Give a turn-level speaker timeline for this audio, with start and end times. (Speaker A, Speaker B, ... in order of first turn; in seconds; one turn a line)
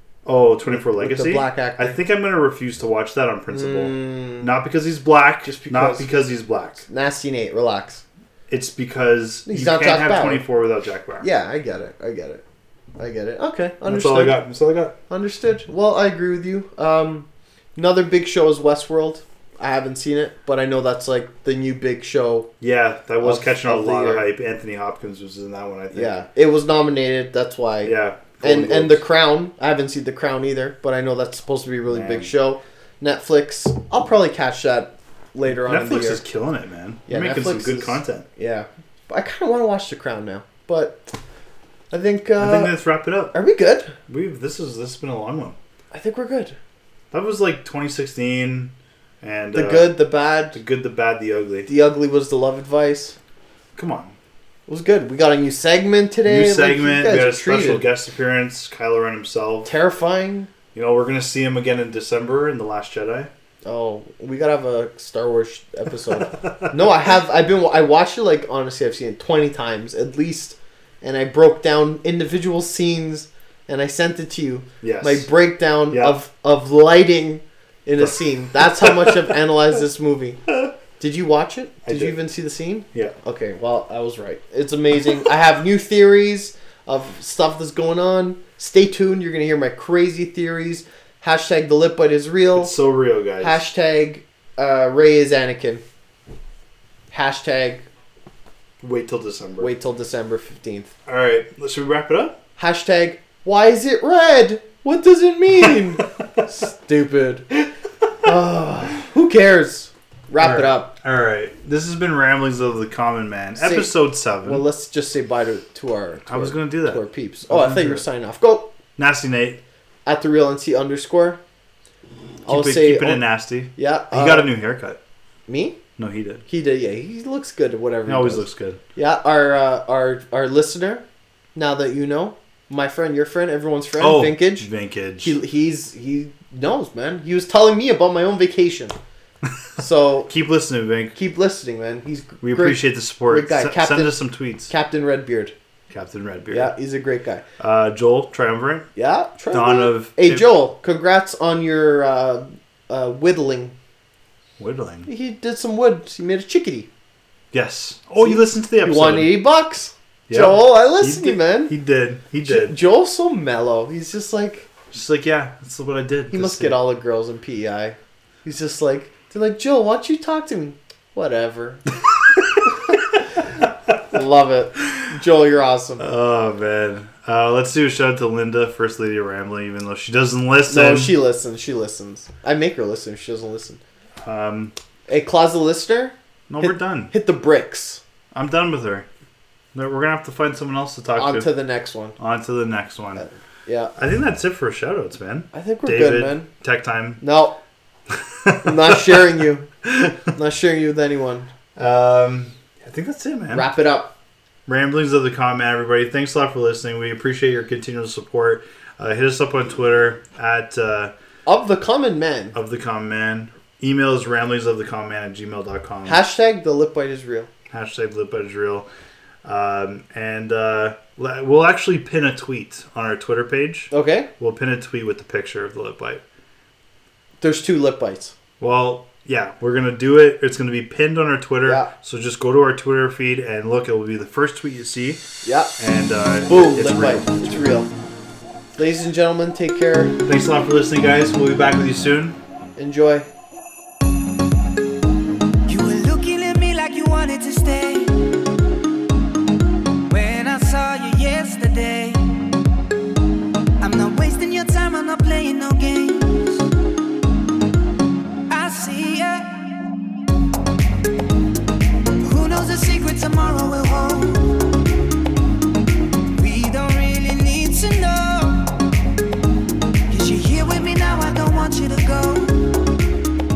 Speaker A: 0.2-6.8
Speaker B: 0.7-2.0
Speaker B: 3.5-4.5
Speaker B: 5.4-6.1
Speaker B: 6.8-8.0
Speaker A: 8.5-11.3
Speaker B: 9.5-10.4
Speaker B: 11.2-12.4
Speaker B: 13.0-14.4
Speaker A: 13.9-15.0
Speaker B: 15.1-22.5
Speaker A: 22.6-26.2
Speaker B: 23.2-24.3
Speaker B: 25.9-36.2
Speaker A: 27.8-29.1
Speaker A: 31.9-32.3
Speaker A: 35.6-38.3
Speaker B: 37.1-41.1
Speaker B: 41.9-42.8
Speaker A: 42.4-43.4
Speaker B: 43.3-43.9
Speaker A: 44.1-45.6
Speaker B: 45.9-46.6
Speaker A: 47.1-49.9
Speaker B: 49.5-50.6
Speaker A: 50.5-51.7
Speaker B: 51.7-53.2
Speaker A: 53.8-54.1
Speaker B: 54.7-57.9
Speaker A: 56.2-59.7
Speaker B: 59.6-60.5
Speaker A: 60.7-63.3
Speaker B: 63.6-80.5
Speaker A: 66.3-66.7
Speaker A: 74.8-75.3
Speaker A: 75.9-76.2
Speaker A: 78.0-79.4
Speaker B: 81.0-92.8
Speaker A: 81.8-82.2
Speaker A: 92.5-93.7
Speaker B: 93.4-95.8
Speaker B: 97.1-97.8
Speaker A: 98.8-99.7
Speaker B: 99.6-100.9
Speaker A: 101.1-102.4
Speaker B: 102.6-107.5
Speaker B: 108.2-110.9
Speaker A: 110.4-114.7
Speaker B: 113.6-118.7
Speaker A: 116.3-118.0
Speaker A: 119.0-119.6
Speaker B: 120.1-121.4
Speaker B: 122.5-124.5
Speaker A: 122.5-125.0
Speaker B: 125.5-125.8
Speaker A: 126.0-126.5
Speaker B: 126.5-134.7
Speaker A: 128.1-128.8
Speaker A: 134.0-135.4
Speaker B: 135.2-138.9
Speaker B: 139.8-140.3
Speaker A: 140.3-141.2
Speaker B: 141.1-145.5
Speaker A: 142.4-144.7
Speaker A: 145.9-146.8
Speaker B: 146.5-147.4
Speaker A: 147.6-148.9
Speaker B: 149.0-153.8
Speaker A: 149.5-150.5
Speaker A: 154.6-155.1
Speaker B: 155.1-156.9
Speaker A: 157.5-159.4
Speaker B: 158.2-161.7
Speaker A: 160.3-162.8
Speaker B: 162.4-164.7
Speaker A: 164.9-166.8
Speaker B: 166.3-171.8
Speaker B: 174.1-176.1
Speaker A: 176.0-181.2
Speaker B: 180.7-183.8
Speaker A: 184.2-184.7
Speaker B: 185.1-188.0
Speaker A: 186.5-187.1
Speaker A: 188.3-189.1
Speaker A: 189.7-191.5
Speaker B: 191.2-192.2
Speaker A: 192.2-193.3
Speaker B: 193.2-193.9
Speaker A: 194.0-197.2
Speaker B: 195.5-196.5
Speaker B: 197.2-197.6
Speaker A: 198.1-199.2
Speaker B: 198.6-199.7
Speaker B: 200.3-201.5
Speaker A: 201.8-203.7
Speaker B: 203.5-204.2
Speaker A: 204.7-211.1
Speaker B: 211.5-212.6
Speaker A: 212.5-216.2
Speaker B: 216.1-217.5
Speaker A: 217.7-218.9
Speaker A: 219.4-226.2
Speaker B: 223.9-224.3
Speaker B: 227.4-228.3
Speaker A: 228.6-235.2
Speaker B: 231.6-231.9
Speaker B: 235.4-235.7
Speaker A: 235.8-237.8
Speaker B: 236.4-237.9
Speaker B: 238.8-240.2
Speaker A: 240.2-242.4
Speaker B: 242.8-243.3
Speaker C: 245.7-248.4
Speaker C: 250.1-252.2
Speaker C: 253.8-256.6
Speaker C: 258.5-259.5
Speaker C: 262.2-264.7
Speaker C: 266.4-268.8
Speaker C: 270.1-272.8